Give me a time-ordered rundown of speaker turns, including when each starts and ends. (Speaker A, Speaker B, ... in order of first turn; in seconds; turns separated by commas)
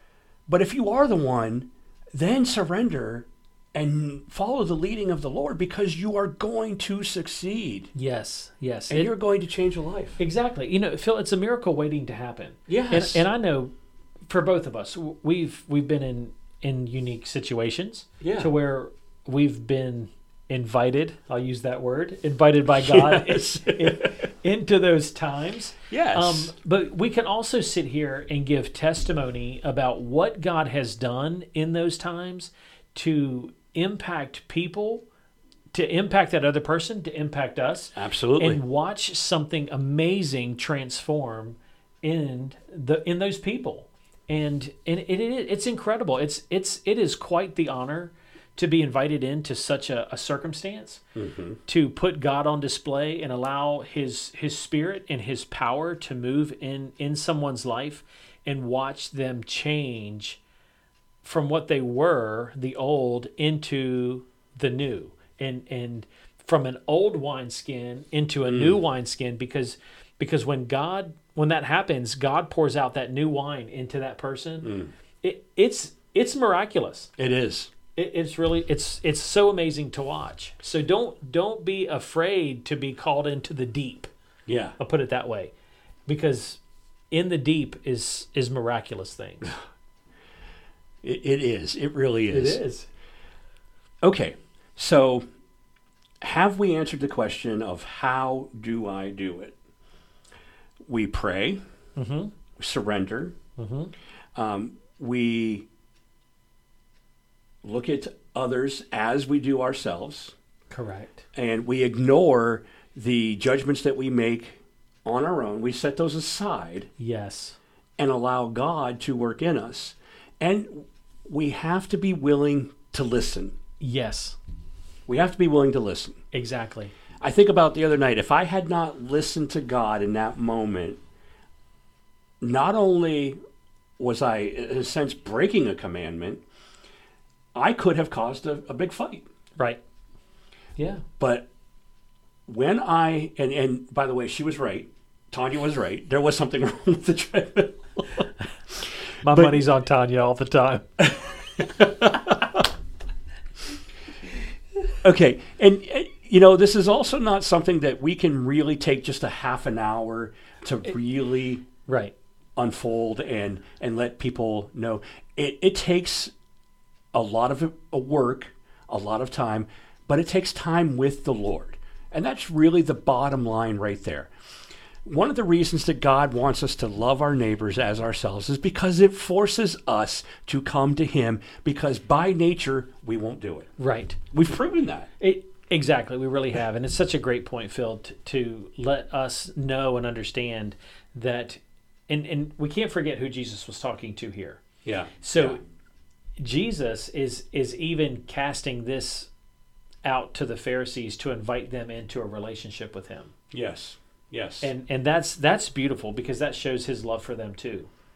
Speaker A: 0.5-7.9, Speaker B: 7.9-9.1, Speaker A: 8.9-10.2, Speaker B: 10.2-13.7, Speaker A: 12.7-13.2, Speaker B: 14.3-35.0, Speaker A: 18.2-18.5, Speaker A: 22.7-24.1, Speaker A: 25.9-26.5, Speaker B: 35.7-51.0, Speaker A: 37.9-38.6, Speaker A: 51.1-51.6, Speaker B: 51.6-60.4, Speaker B: 61.2-77.1, Speaker A: 68.5-68.8, Speaker A: 74.6-74.9, Speaker A: 77.2-77.7, Speaker B: 77.9-84.1, Speaker A: 84.5-84.8, Speaker B: 84.8-85.5, Speaker B: 86.1-86.6, Speaker B: 87.1-89.5, Speaker A: 91.0-92.6, Speaker B: 92.3-92.9, Speaker A: 94.0-95.2, Speaker A: 96.2-99.6, Speaker A: 100.9-101.6, Speaker B: 102.0-102.3, Speaker A: 102.6-103.4, Speaker B: 103.6-103.9, Speaker A: 104.3-105.7, Speaker A: 107.6-110.3, Speaker B: 110.7-111.2, Speaker A: 111.3-116.9, Speaker B: 117.0-117.6, Speaker A: 118.0-123.5, Speaker B: 123.8-124.4, Speaker A: 125.1-126.2, Speaker B: 126.3-126.9, Speaker A: 127.2-131.0, Speaker A: 132.4-133.4, Speaker A: 134.0-136.4, Speaker A: 137.6-139.3, Speaker B: 140.8-141.0, Speaker A: 141.2-141.5, Speaker A: 142.5-148.2, Speaker B: 149.2-151.6, Speaker A: 149.2-149.6, Speaker A: 151.6-152.4, Speaker A: 155.0-161.7, Speaker B: 161.8-162.1, Speaker A: 162.6-166.3, Speaker A: 167.1-174.3, Speaker A: 175.0-183.7, Speaker B: 183.8-184.2, Speaker A: 184.3-185.1, Speaker B: 185.2-194.6, Speaker A: 194.8-195.6, Speaker B: 195.2-195.6, Speaker B: 196.4-199.3, Speaker B: 200.1-203.3, Speaker A: 203.5-204.7, Speaker B: 204.6-207.9